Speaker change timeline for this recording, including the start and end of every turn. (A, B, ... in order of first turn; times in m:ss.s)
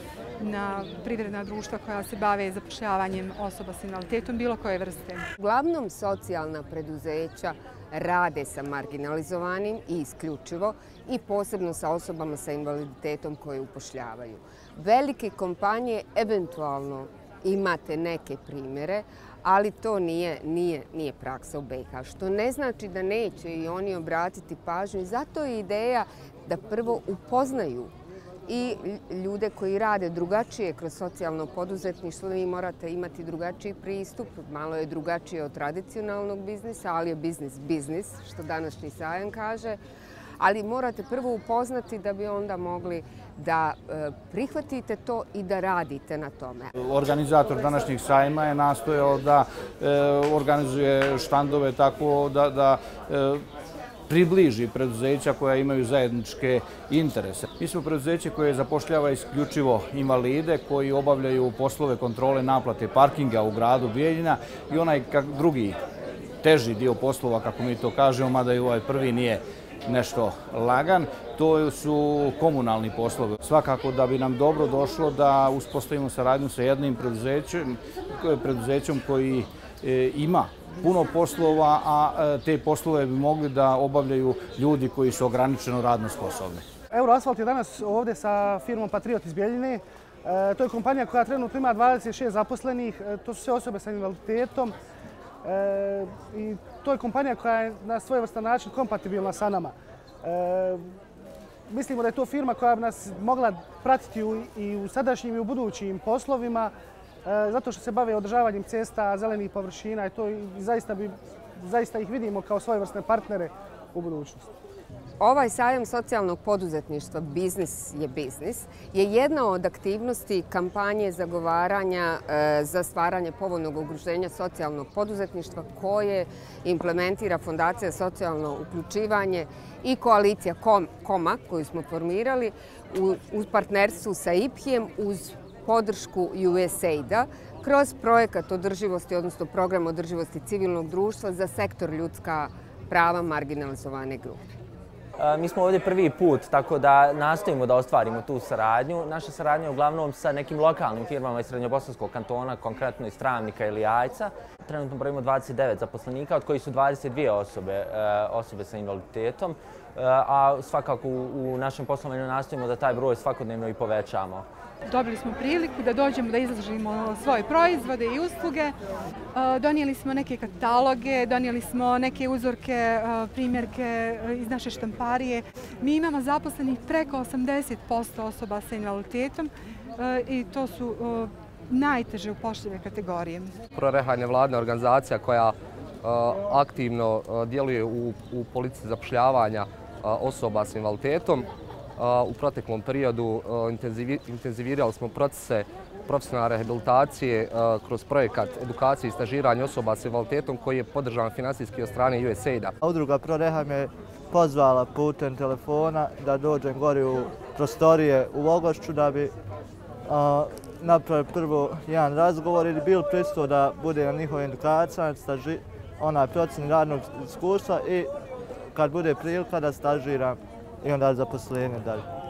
0:00.4-0:05.3 A
0:05.4-0:27.9 B
0:28.5-0:39.8 B
0:40.4-0:46.7 B
0:46.8-0:53.4 C
0:54.1-1:05.8 C
1:06.4-1:26.6 C
1:26.9-1:34.7 D
1:35.4-1:40.8 D
1:41.7-1:46.7 D
1:47.2-1:54.5 D
1:55.2-2:24.4 B
2:25.2-2:44.5 E
2:44.8-2:48.7 A
2:49.3-3:03.6 A
3:03.7-3:22.7 F
3:22.8-3:29.3 G
3:30.1-3:38.1 G
3:38.7-3:42.0 G